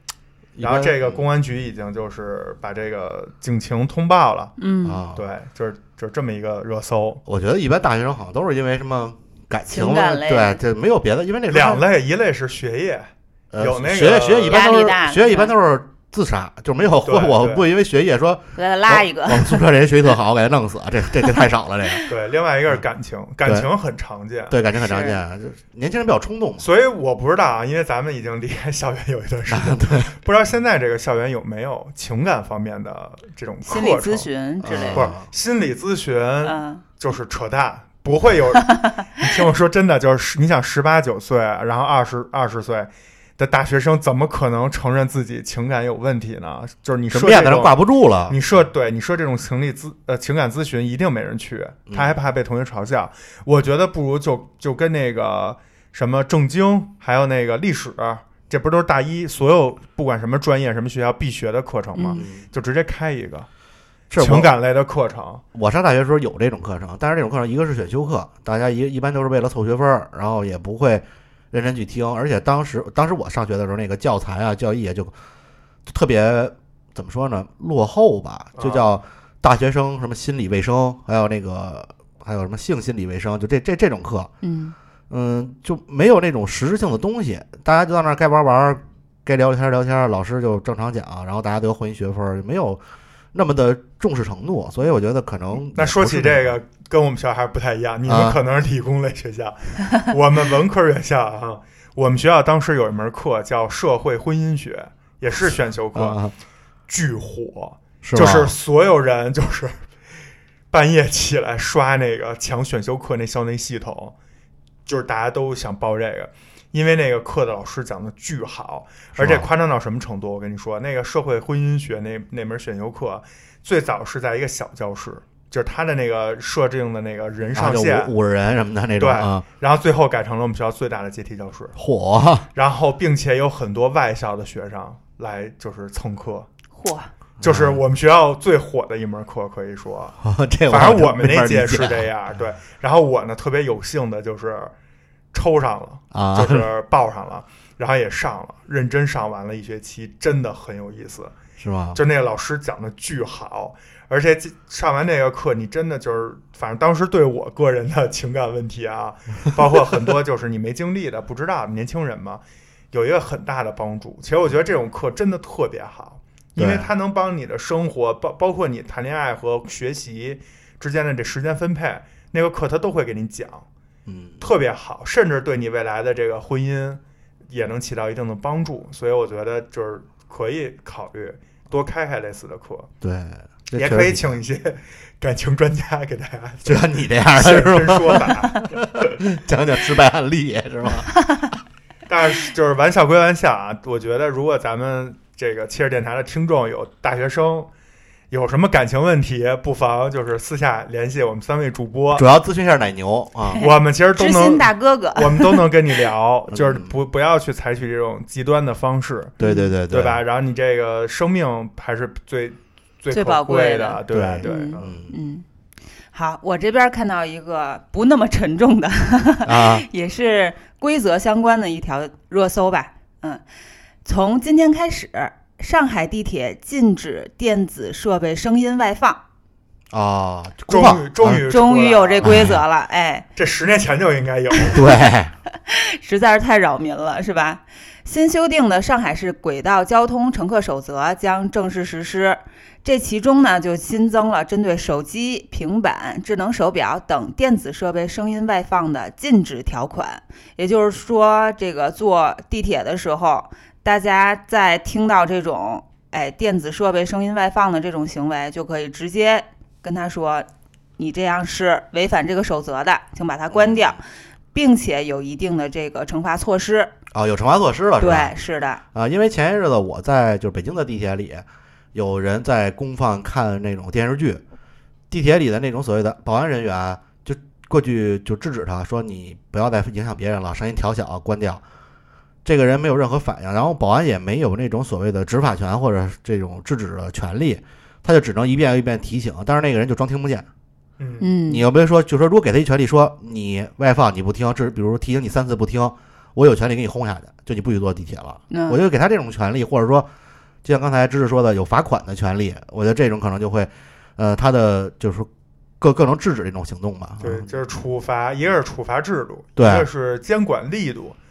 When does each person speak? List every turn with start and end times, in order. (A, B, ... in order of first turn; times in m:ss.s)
0:00.6-0:01.2 A
0:00.6-0:04.5 B
0:04.6-0:05.0 C
0:04.8-0:05.3 A
0:05.1-0:07.2 B
0:07.2-0:11.8 A
0:09.7-0:10.6 C
0:11.5-0:14.6 B
0:13.5-0:22.0 A
0:14.5-0:15.5 C
0:17.0-0:17.6 B
0:18.6-0:19.6 C
0:22.1-0:24.6 B
0:24.5-0:26.6 A
0:24.7-0:25.2 C
0:26.6-0:47.7 B
0:29.5-0:30.1 A
0:33.6-0:35.1 C
0:34.6-0:35.2 A
0:36.4-0:36.8 C
0:47.1-0:48.4 A
0:48.3-1:03.5 B
0:51.9-0:52.2 A
1:01.9-1:02.2 C
1:02.2-1:02.4 A
1:04.1-1:04.5 A
1:04.1-1:05.4 B
1:05.5-1:15.1 A
1:15.8-1:24.3 A
1:18.6-1:18.9 B
1:24.4-1:24.7 C
1:25.1-1:32.8 A
1:33.3-1:36.5 A
1:35.7-1:46.2 B
1:38.1-1:38.4 A
1:45.9-1:46.3 A
1:46.9-1:49.8 B
1:48.0-1:48.5 A
1:50.7-1:54.1 B
1:54.8-2:08.1 B
1:59.2-1:59.5 A
2:07.5-2:09.4 A
2:09.0-2:11.7 B
2:11.8-2:12.5 A
2:12.5-2:16.5 B
2:16.7-2:17.1 C
2:17.4-2:17.8 A
2:17.4-2:20.2 B
2:20.2-2:22.1 A
2:20.7-2:24.7 B
2:25.3-2:31.3 B
2:26.1-2:26.7 A
2:31.6-2:32.0 A
2:31.9-2:53.6 B
2:46.6-2:46.9 A
2:54.0-2:54.4 A
2:54.4-3:02.9 B
3:03.0-3:04.4 A
3:03.7-3:09.2 B
3:06.6-3:11.5 A
3:12.1-3:17.7 B
3:18.3-3:22.3 B
3:22.1-3:23.6 A
3:23.5-3:25.6 C
3:23.6-3:29.4 B
3:26.5-3:26.9 A
3:29.4-3:30.2 A
3:29.4-3:29.7 C
3:29.9-3:34.9 B
3:33.1-3:35.4 C
3:34.1-3:35.1 A
3:36.1-3:43.4 C
3:39.4-3:39.9 A
3:44.0-3:49.2 C
3:49.9-3:51.4 A
3:50.7-3:52.5 B
3:51.5-3:53.2 C
3:52.2-3:52.6 A
3:53.4-3:54.9 B
3:54.7-3:55.3 A
3:55.5-4:20.5 C
4:21.0-4:26.9 C
4:23.5-4:24.0 A
4:27.1-4:28.3 A
4:28.0-4:28.8 C
4:28.9-4:34.4 A
4:35.1-4:41.6 A
4:42.4-4:50.5 A
4:51.0-4:51.3 B
4:51.2-4:51.6 C
4:51.5-5:00.1 A
4:58.5-4:58.8 C
5:00.6-5:05.3 A
5:05.8-5:07.5 A
5:07.2-5:11.2 B
5:09.6-5:09.9 A